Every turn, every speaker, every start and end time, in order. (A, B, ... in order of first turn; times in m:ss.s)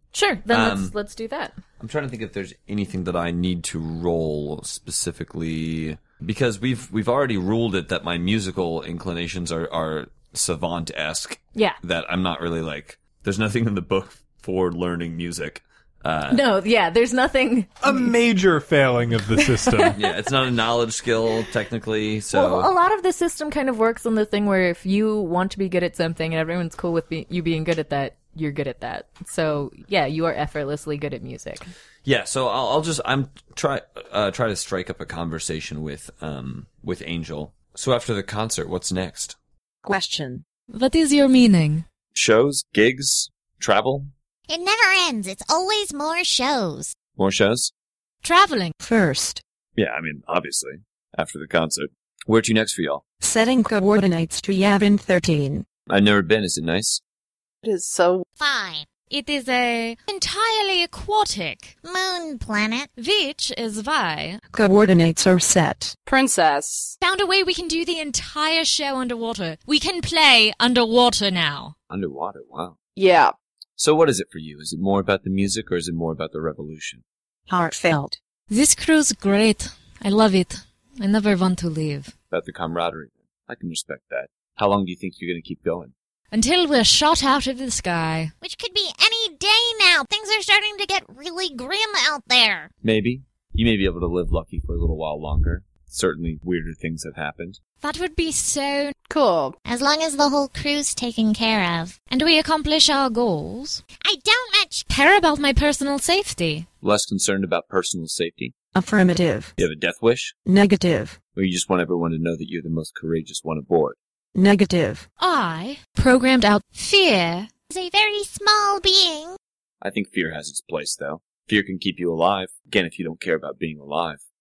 0:00.1-0:01.6 A
0:00.5-0:00.9 B
0:01.8-0:16.4 B
0:16.3-0:18.1 A
0:17.8-0:20.0 C
0:19.4-0:20.0 A
0:20.0-0:22.7 B
0:22.3-0:31.7 A
0:32.0-0:39.4 B
0:39.8-0:40.4 D
0:40.7-0:41.8 E
0:42.2-0:44.1 B
0:44.5-0:47.0 F
0:47.2-0:47.7 B
0:48.2-0:48.7 E
0:48.8-0:49.4 D
0:49.8-0:53.0 B
0:53.2-0:55.7 D
0:55.9-0:57.0 B
0:57.6-0:58.2 G
0:58.4-0:58.9 F
0:59.1-1:01.8 E
1:01.8-1:02.9 F
1:03.0-1:04.4 E
1:04.5-1:06.0 D
1:06.1-1:07.0 G
1:07.0-1:11.7 E
1:11.9-1:12.8 B
1:13.0-1:13.3 G
1:13.8-1:17.0 B
1:17.5-1:18.2 D
1:18.5-1:22.1 E
1:22.3-1:25.9 B
1:26.3-1:28.3 E
1:28.4-1:32.7 F
1:32.8-1:37.6 B
1:37.8-1:39.0 E
1:39.1-1:39.6 G
1:39.6-1:42.0 F
1:42.1-1:43.8 E
1:44.0-1:44.9 F
1:44.9-1:46.7 E
1:46.8-1:48.5 B
1:48.8-1:49.6 D
1:49.6-1:50.4 B
1:50.5-1:51.2 D
1:51.4-1:54.0 B
1:54.4-1:55.1 D
1:55.2-1:57.5 E
1:57.7-1:59.4 F
1:59.8-2:04.2 B